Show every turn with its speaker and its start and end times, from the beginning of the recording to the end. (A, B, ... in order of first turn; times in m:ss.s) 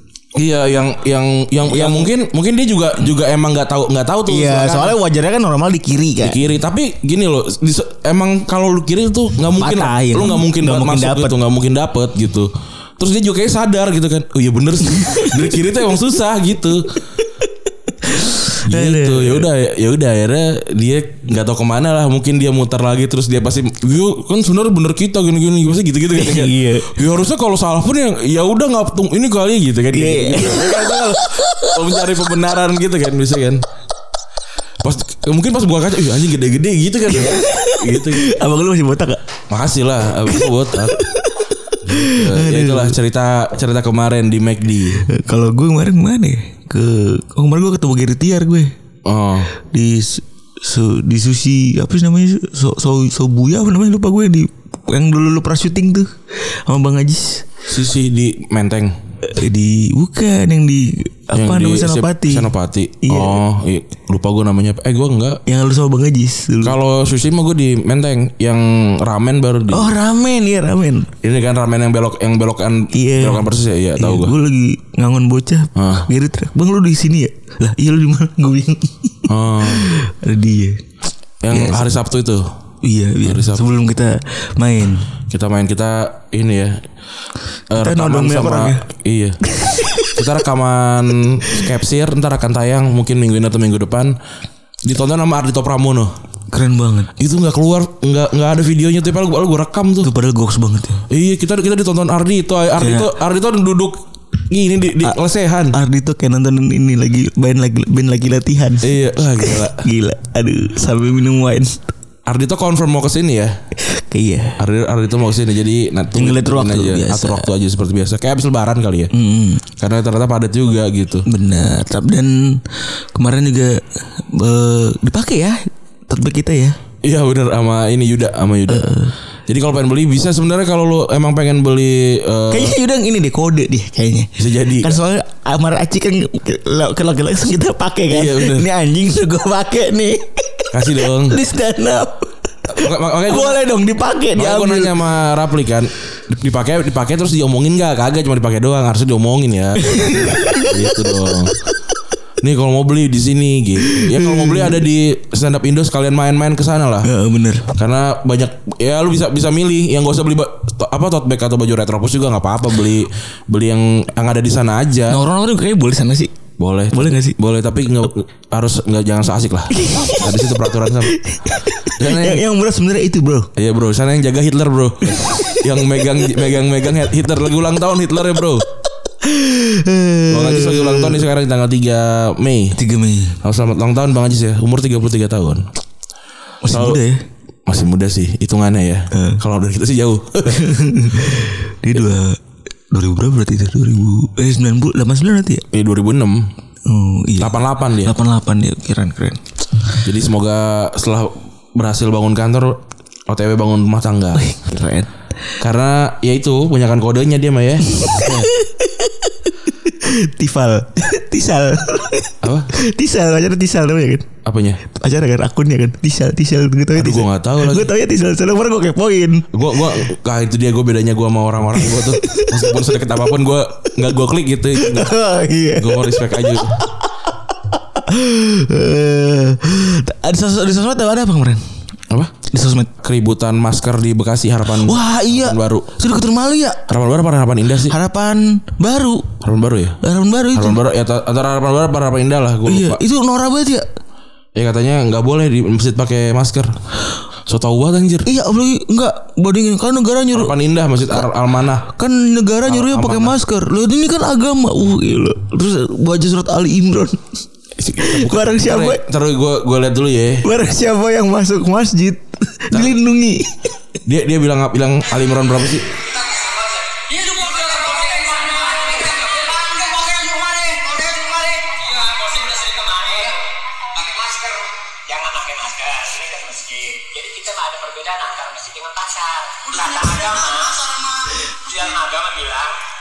0:00.4-0:05.0 A
0:01.7-0:02.1 B
0:04.3-0:06.4 B
0:06.2-0:16.9 A
0:09.6-0:11.4 B
0:15.0-0:15.4 B
0:18.0-0:19.5 B
0:18.7-0:33.6 A
0:26.2-0:27.0 B
0:29.9-0:31.7 B
0:34.8-0:38.3 A
0:37.1-0:39.2 B
0:39.5-0:41.0 A
0:40.3-0:43.0 B
0:41.9-0:45.1 A
0:45.0-0:48.7 B
0:49.0-0:49.5 A
0:49.6-0:57.5 B
0:57.7-0:59.0 A
0:59.2-1:03.4 B
1:01.3-1:05.4 A
1:05.5-1:06.8 B
1:06.6-1:09.9 A
1:09.7-1:11.1 B
1:11.2-1:14.4 A
1:12.9-1:13.4 B
1:14.0-1:20.8 B
1:15.8-1:16.1 A
1:19.3-1:20.0 A
1:21.4-1:22.5 A
1:21.5-1:21.9 B
1:22.8-1:25.1 B
1:23.2-1:23.8 A
1:25.3-1:26.8 A
1:27.7-1:29.4 A
1:27.8-1:28.8 B
1:29.4-1:30.2 B
1:30.2-1:34.2 A
1:34.8-1:36.1 A
1:36.5-1:37.1 B
1:37.2-1:40.1 A
1:40.0-1:41.0 B
1:41.1-1:45.8 A
1:42.8-1:43.1 B
1:45.7-1:51.9 B
1:48.8-1:49.9 A
1:52.3-1:53.6 A
1:53.8-1:54.6 B
1:54.6-1:59.1 A
1:56.2-1:57.5 B
1:59.1-1:59.6 B
1:59.8-2:01.2 A
2:01.3-2:02.6 B
2:03.2-2:06.8 B
2:07.0-2:09.0 A
2:08.7-2:09.1 B
2:09.5-2:12.8 A
2:12.5-2:24.9 B
2:14.4-2:15.0 A
2:18.1-2:18.7 A
2:20.7-2:21.4 A
2:22.7-2:23.6 A
2:24.3-2:31.5 A
2:29.8-2:31.1 B
2:32.4-2:37.1 A
2:33.9-2:34.8 B
2:37.0-2:37.7 B
2:37.7-2:45.2 A
2:45.1-2:46.4 B
2:46.6-2:51.2 A
2:46.9-2:47.4 B
2:49.7-2:50.5 B
2:51.1-2:53.5 B
2:51.9-2:52.4 A
2:53.6-2:58.7 A
2:55.2-2:55.6 B
2:59.2-3:01.2 B
3:00.3-3:02.8 A
3:02.8-3:03.4 B
3:03.4-3:05.7 A
3:06.6-3:07.2 B
3:06.7-3:07.0 A
3:07.7-3:11.3 A
3:09.1-3:09.4 B
3:10.5-3:15.6 B
3:15.7-3:16.5 A
3:16.9-3:19.4 B
3:17.4-3:18.1 A
3:20.0-3:24.5 A
3:24.4-3:25.1 B
3:25.6-3:28.5 A
3:27.9-3:34.3 B
3:32.4-3:32.7 A
3:34.4-3:34.8 A
3:34.8-3:39.5 B
3:37.0-3:37.9 A
3:39.5-3:45.2 A
3:41.8-3:42.7 B
3:44.8-3:51.6 B
3:45.8-3:46.8 A
3:52.1-3:52.4 A
3:52.4-3:52.9 B
3:53.0-3:55.9 A
3:54.7-3:56.9 B
3:56.9-3:58.0 A
3:57.9-3:59.4 B
3:59.4-4:00.0 A
4:00.0-4:00.8 B
4:00.5-4:03.0 A
4:02.7-4:03.9 B
4:04.6-4:06.7 A
4:07.5-4:08.3 A
4:08.2-4:10.6 B
4:10.3-4:11.9 A
4:11.9-4:17.3 B
4:12.7-4:13.4 A
4:17.8-4:20.4 A
4:18.0-4:19.0 B
4:20.4-4:23.7 B
4:22.7-4:23.0 A
4:24.0-4:26.0 A
4:26.1-4:42.8 C